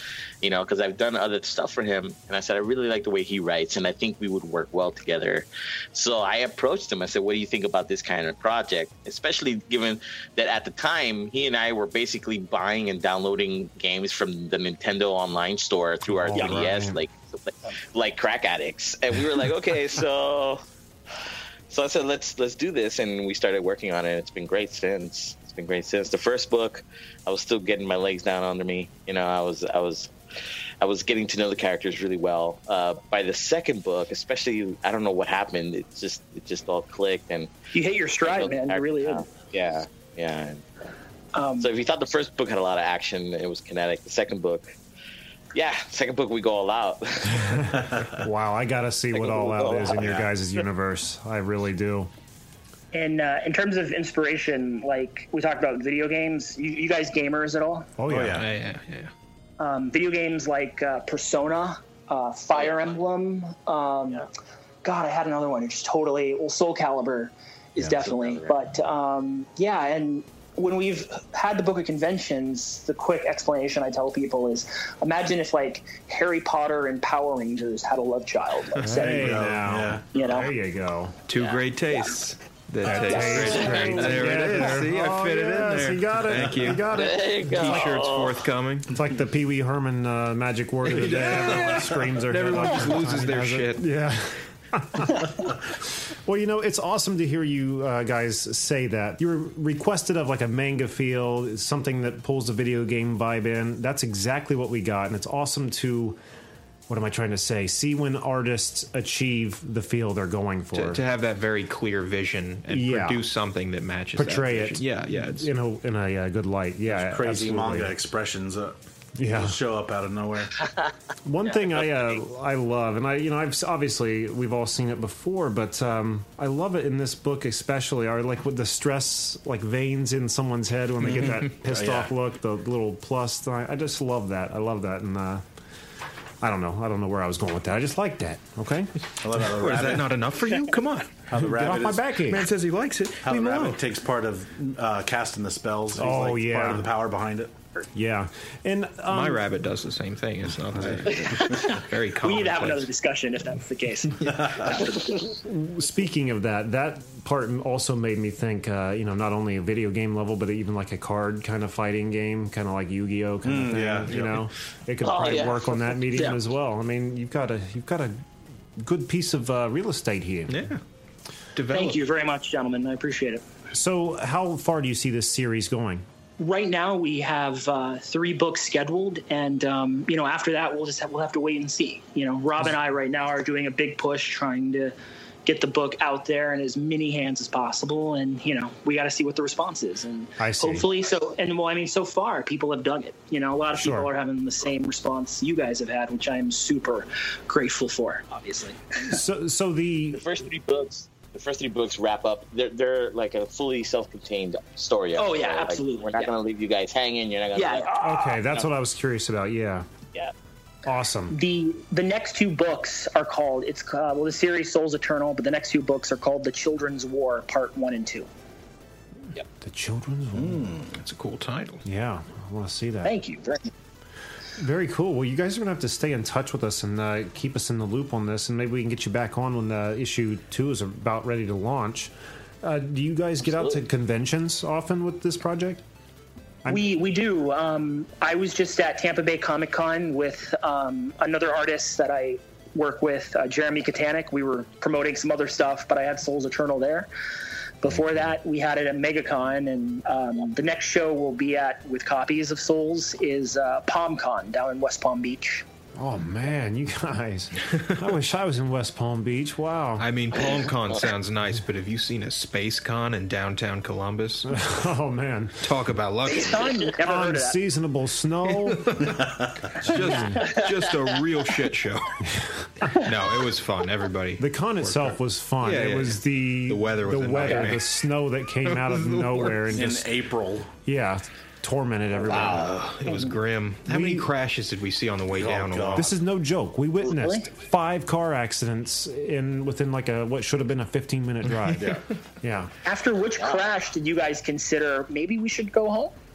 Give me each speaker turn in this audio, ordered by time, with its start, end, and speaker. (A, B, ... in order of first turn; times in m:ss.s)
0:00.4-0:20.6 A
0:16.1-0:17.0 B
0:21.7-0:30.1 A
0:30.8-0:37.5 A
0:37.7-0:39.3 C
0:38.2-0:40.7 A
0:41.3-0:41.7 C
0:41.6-0:44.8 A
0:45.5-0:47.7 A
0:47.4-0:52.1 B
0:49.1-0:50.3 A
0:52.9-0:57.9 C
0:58.0-0:58.4 B
0:58.1-0:58.5 D
0:58.2-0:59.1 E
0:59.6-1:04.3 C
1:02.5-1:03.0 A
1:04.8-1:19.4 C
1:07.8-1:08.6 A
1:18.8-1:21.2 B
1:19.0-1:20.0 D
1:20.1-1:20.5 C
1:21.3-1:28.9 E
1:21.3-1:21.7 A
1:22.8-1:27.9 B
1:23.1-1:24.4 A
1:23.2-1:23.5 C
1:26.9-1:28.4 A
1:28.9-1:46.2 B
1:30.9-1:33.9 E
1:31.3-1:31.7 D
1:46.9-1:51.0 B
1:50.7-1:55.5 E
1:52.7-1:53.2 B
1:54.2-1:57.9 B
1:56.9-2:00.6 D
1:59.2-1:59.6 B
2:01.2-2:15.4 B
2:01.5-2:02.0 A
2:11.0-2:12.1 D
2:16.4-2:18.9 B
2:19.2-2:20.2 D
2:19.5-2:21.3 E
2:21.3-2:22.1 D
2:21.5-2:22.4 B
2:22.3-2:23.8 E
2:23.2-2:27.5 D
2:26.0-2:26.9 B
2:28.0-2:29.4 B
2:29.1-2:32.9 E
2:31.3-2:35.3 C
2:35.4-2:48.2 B
2:43.4-2:44.5 D
2:45.0-2:45.8 A
2:48.8-2:50.7 B
2:50.5-2:50.8 E
2:51.6-2:52.0 E
2:51.7-2:53.4 C
2:53.7-2:56.0 B
2:56.4-3:04.9 C
3:05.4-3:19.1 C
3:10.4-3:10.9 B
3:13.8-3:14.1 B
3:19.0-3:20.3 B
3:20.2-3:28.0 A
3:25.2-3:26.3 C
3:27.5-3:28.4 C
3:28.0-3:29.9 B
3:30.9-3:31.4 B
3:31.3-3:38.3 C
3:39.6-3:40.7 B
3:40.4-3:40.9 D
3:40.9-3:41.8 E
3:41.8-3:43.1 B
3:43.0-3:43.7 C
3:44.6-3:55.8 B
3:56.7-4:07.1 C
4:07.8-4:15.6 C
4:16.0-4:20.1 B
4:20.0-4:24.7 E
4:24.5-4:25.6 B
4:25.6-4:26.8 E
4:26.3-4:27.6 C
4:27.0-4:29.1 B
4:28.7-4:34.4 E
4:29.8-4:30.4 B
4:34.4-4:40.1 B
4:34.8-4:35.1 D
4:35.6-4:38.0 E
4:38.6-4:39.6 E
4:39.7-4:40.7 D
4:40.8-4:42.7 B
4:42.3-4:42.8 A
4:42.3-4:46.1 E
4:43.9-4:44.3 B
4:45.3-4:46.1 D
4:46.0-4:52.7 B
4:47.0-4:47.5 C
4:51.8-4:52.0 D
4:52.8-4:56.1 C